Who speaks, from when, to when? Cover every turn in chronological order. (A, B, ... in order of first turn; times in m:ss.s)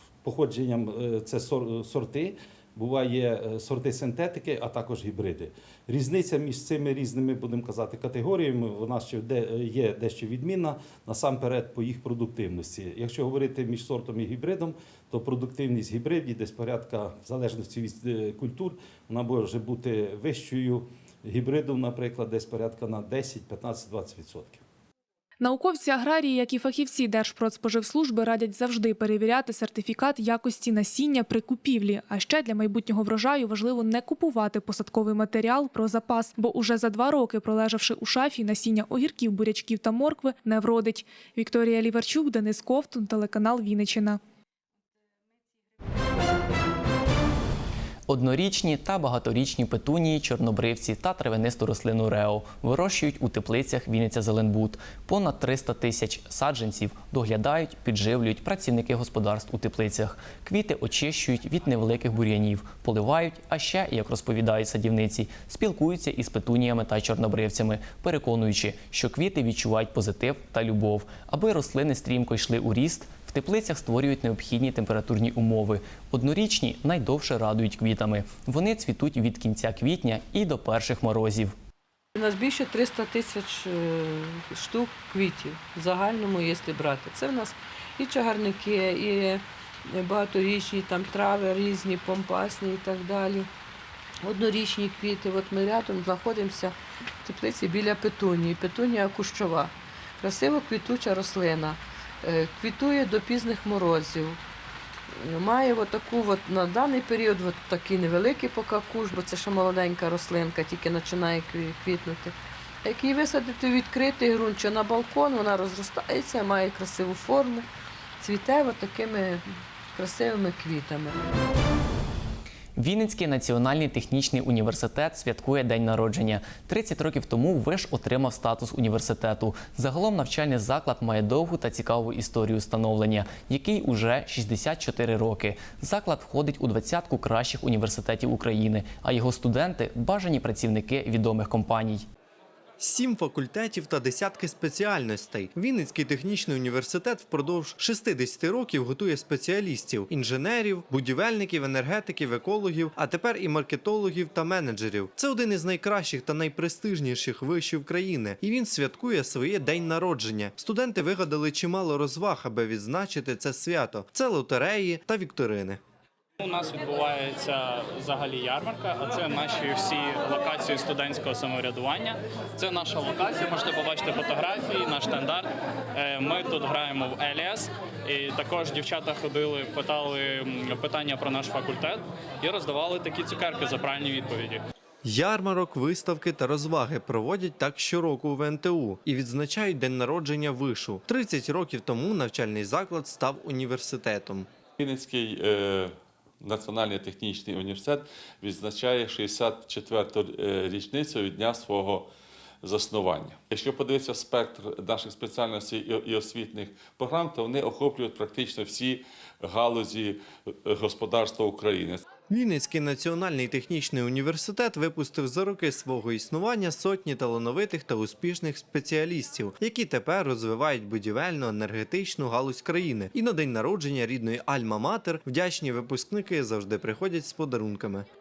0:00.2-0:24.6 A
0:25.4-0:44.2 B
0:48.1-1:21.6 C
1:22.2-1:33.5 D
1:34.2-1:44.4 D
1:45.1-1:57.7 D
1:58.2-2:01.2 D
2:02.8-2:22.1 C
2:22.8-2:45.8 E
2:46.4-3:04.6 F
3:05.0-3:14.5 E
3:14.8-3:22.1 G
3:22.6-3:32.0 G
3:32.3-3:48.1 E